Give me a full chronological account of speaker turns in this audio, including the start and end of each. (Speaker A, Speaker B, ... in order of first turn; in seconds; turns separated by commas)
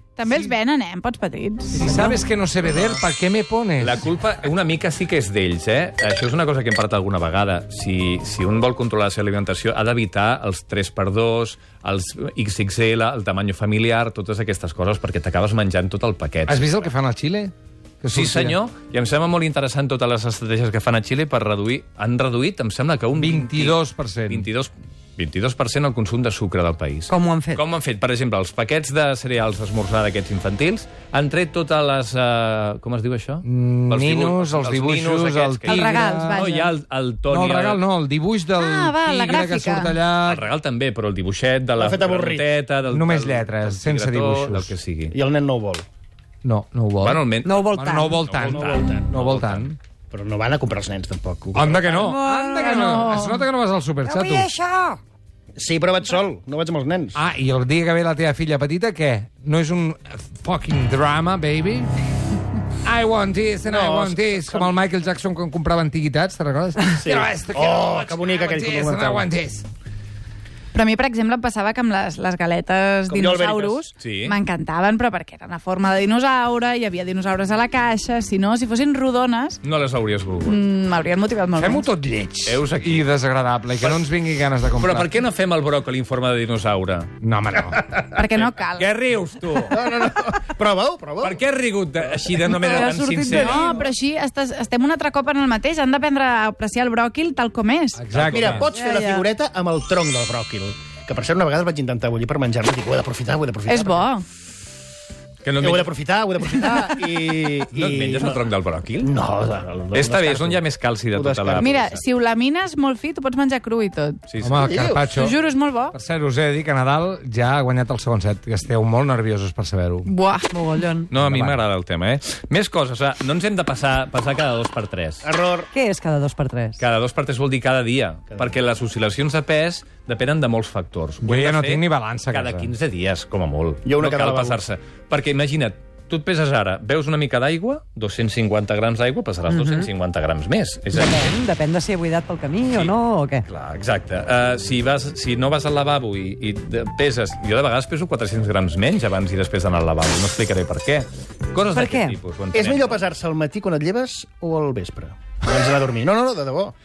Speaker A: 0.1-2.2, Speaker B: 0.2-0.5, Speaker B: 1.7-4.0, Speaker C: 2.6-3.0, Speaker C: 3.8-16.9, Speaker B: 16.5-18.6, Speaker C: 18.1-23.8, Speaker B: 23.1-24.5, Speaker C: 24.3-37.8, Speaker D: 27.1-27.6, Speaker B: 33.4-36.4, Speaker A: 35.6-36.7, Speaker B: 37.3-40.5, Speaker A: 38.6-40.0, Speaker C: 40.2-45.1, Speaker E: 41.8-42.5, Speaker B: 42.9-44.7, Speaker E: 45.1-45.8, Speaker B: 46.4-49.8, Speaker C: 47.0-49.7, Speaker D: 47.4-48.2, Speaker E: 48.3-49.1, Speaker E: 50.1-52.0, Speaker B: 51.5-54.5, Speaker D: 51.9-53.1, Speaker A: 52.5-53.5, Speaker D: 54.0-55.0, Speaker E: 55.5-57.2, Speaker B: 57.1-61.9, Speaker B: 62.8-69.7, Speaker E: 63.6-64.8, Speaker E: 67.0-69.3, Speaker A: 70.7-79.6, Speaker E: 73.1-73.8, Speaker C: 74.0-74.4, Speaker C: 79.6-80.6, Speaker A: 80.4-81.9, Speaker B: 81.5-85.1, Speaker C: 82.4-83.0, Speaker C: 84.8-87.1, Speaker B: 87.2-88.0, Speaker A: 88.0-88.9, Speaker C: 88.6-89.8, Speaker E: 89.7-91.4, Speaker C: 91.2-93.6, Speaker A: 92.5-98.0, Speaker B: 93.2-93.8, Speaker B: 98.0-98.7, Speaker C: 98.1-98.7, Speaker E: 98.2-104.2, Speaker D: 98.7-99.2, Speaker A: 103.6-104.2, Speaker C: 105.4-105.9, Speaker E: 105.6-108.5, Speaker C: 107.7-109.1, Speaker E: 109.0-111.8, Speaker C: 109.9-112.0, Speaker A: 111.6-114.2, Speaker C: 114.3-114.8, Speaker B: 114.4-115.4, Speaker E: 114.6-115.1, Speaker A: 115.1-115.9, Speaker B: 115.9-120.1, Speaker A: 120.1-120.5, Speaker D: 120.5-121.1, Speaker C: 121.1-125.3, Speaker B: 121.1-121.6, Speaker E: 125.2-125.7, Speaker D: 125.7-126.8, Speaker C: 126.8-141.3, Speaker B: 131.2-132.7, Speaker E: 133.8-134.6, Speaker D: 139.5-139.9, Speaker D: 140.9-143.4, Speaker C: 143.4-153.0, Speaker D: 151.7-152.2, Speaker E: 152.5-156.7